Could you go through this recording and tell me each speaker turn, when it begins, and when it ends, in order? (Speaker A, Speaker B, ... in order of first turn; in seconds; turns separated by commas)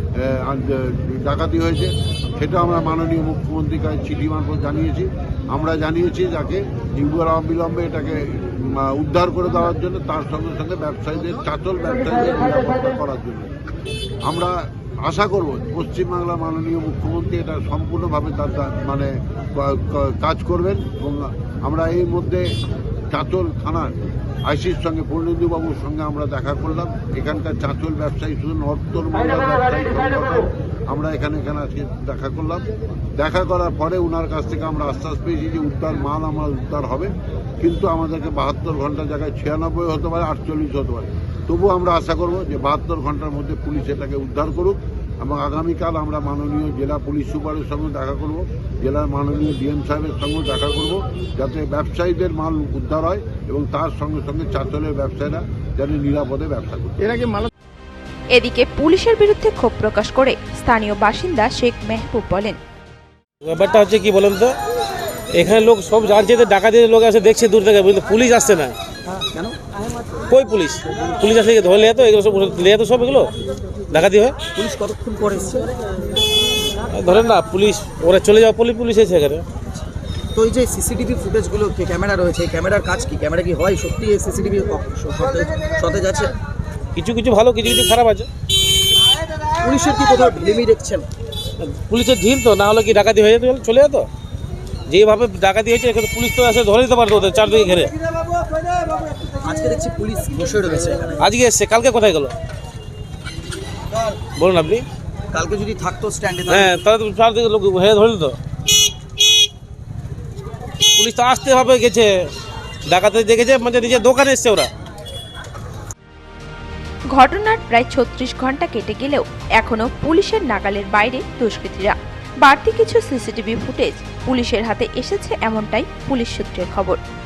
Speaker A: 0.2-13.5, Speaker A: 14.2-22.5, Speaker A: 23.1-23.9, Speaker A: 24.5-57.3, Speaker B: 58.3-62.6, Speaker C: 63.4-64.6, Speaker C: 65.3-68.8, Speaker D: 69.1-69.6, Speaker C: 70.3-73.3, Speaker C: 73.9-74.4, Speaker D: 74.5-75.7, Speaker C: 76.9-79.4, Speaker D: 80.3-86.3, Speaker C: 87.0-88.3, Speaker D: 89.6-91.1, Speaker C: 91.6-94.1, Speaker C: 94.9-97.9, Speaker D: 99.2-101.2, Speaker C: 101.2-102.3, Speaker C: 104.4-104.8, Speaker D: 105.3-106.8, Speaker C: 106.5-108.4, Speaker C: 111.0-112.1, Speaker C: 112.9-114.7, Speaker B: 117.1-127.0